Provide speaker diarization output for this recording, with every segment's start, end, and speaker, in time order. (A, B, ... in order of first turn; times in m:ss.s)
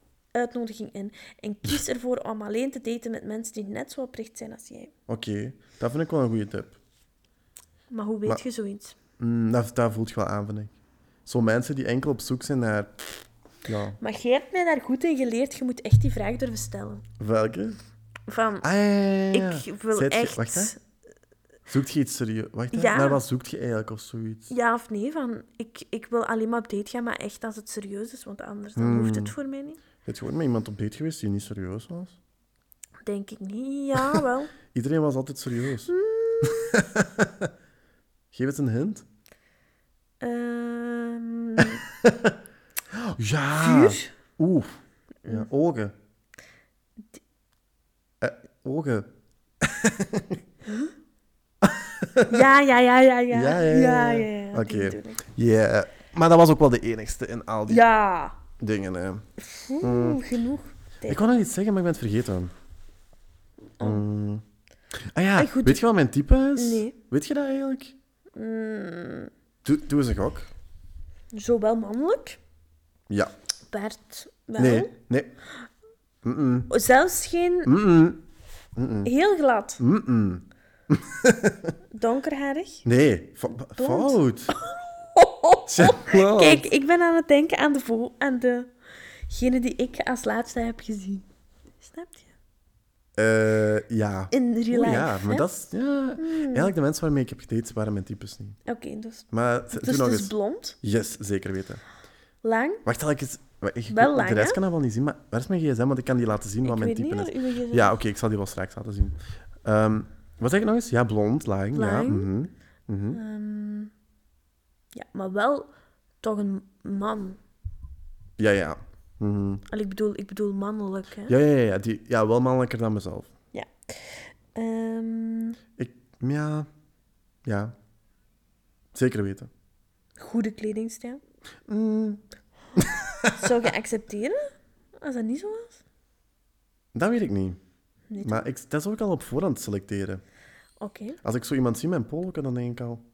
0:00.4-0:04.9 A
0:05.1-0:06.8 B
0:07.9-0:09.0 A
0:09.2-0:10.7 B
0:11.3-0:14.0 B
0:14.0-0:17.0 A
0:17.2-0:17.8 B
0:18.3-0:18.7 A
0:18.6-0:20.7 B
0:19.3-0:20.8 A
0:21.7-0:24.5 B
0:22.7-0:23.2 A
0:24.5-0:29.8 A
0:28.8-0:29.4 B
0:30.0-0:32.2 B
0:33.1-0:34.5 A
0:34.0-0:37.5 B
0:35.9-0:36.8 A
0:38.3-0:39.0 B
0:40.2-0:41.8 A
0:41.6-0:42.4 B
0:42.9-0:45.9 B
0:43.6-0:44.1 A
0:48.2-0:49.1 B
0:49.6-0:50.4 B
0:51.6-0:52.5 B
0:52.3-0:55.2 A
0:53.3-0:57.9 B
0:57.7-0:58.4 A
0:58.6-0:59.2 B
0:59.4-1:01.2 A
0:59.8-1:00.2 B
1:01.1-1:02.5 B
1:03.8-1:04.4 B
1:05.1-1:08.0 B
1:05.4-1:05.8 A
1:06.6-1:07.0 A
1:08.4-1:09.3 A
1:09.6-1:10.5 B
1:11.3-1:12.4 A
1:13.7-1:14.9 A
1:14.6-1:15.3 B
1:16.2-1:16.7 B
1:16.7-1:17.7 A
1:17.6-1:18.2 B
1:18.8-1:19.1 B
1:19.0-1:19.8 A
1:19.8-1:21.8 B
1:21.9-1:22.8 A
1:22.8-1:24.6 B
1:23.8-1:28.7 A
1:25.7-1:26.7 B
1:29.3-1:31.3 A
1:31.8-1:32.3 A
1:33.2-1:38.6 B
1:34.3-1:35.5 A
1:36.2-1:36.7 A
1:38.7-1:40.8 A
1:39.3-1:41.8 B
1:42.4-1:42.8 A
1:42.8-1:53.2 B
1:43.9-1:44.6 A
1:46.6-1:48.0 A
1:51.7-1:52.3 A
1:53.1-1:53.9 A
1:54.9-1:55.7 A
1:56.2-1:57.4 A
1:58.4-1:59.6 B
1:59.7-2:01.4 A
2:01.3-2:03.3 B
2:03.5-2:05.6 A
2:05.8-2:06.7 B
2:07.4-2:07.7 B
2:08.9-2:09.5 B
2:10.2-2:11.2 A
2:11.7-2:12.2 B
2:12.8-2:13.4 B
2:13.4-2:14.5 A
2:15.0-2:15.8 A
2:16.9-2:17.6 B
2:18.1-2:18.5 A
2:18.2-2:20.2 B
2:20.8-2:21.2 A
2:21.2-2:23.0 B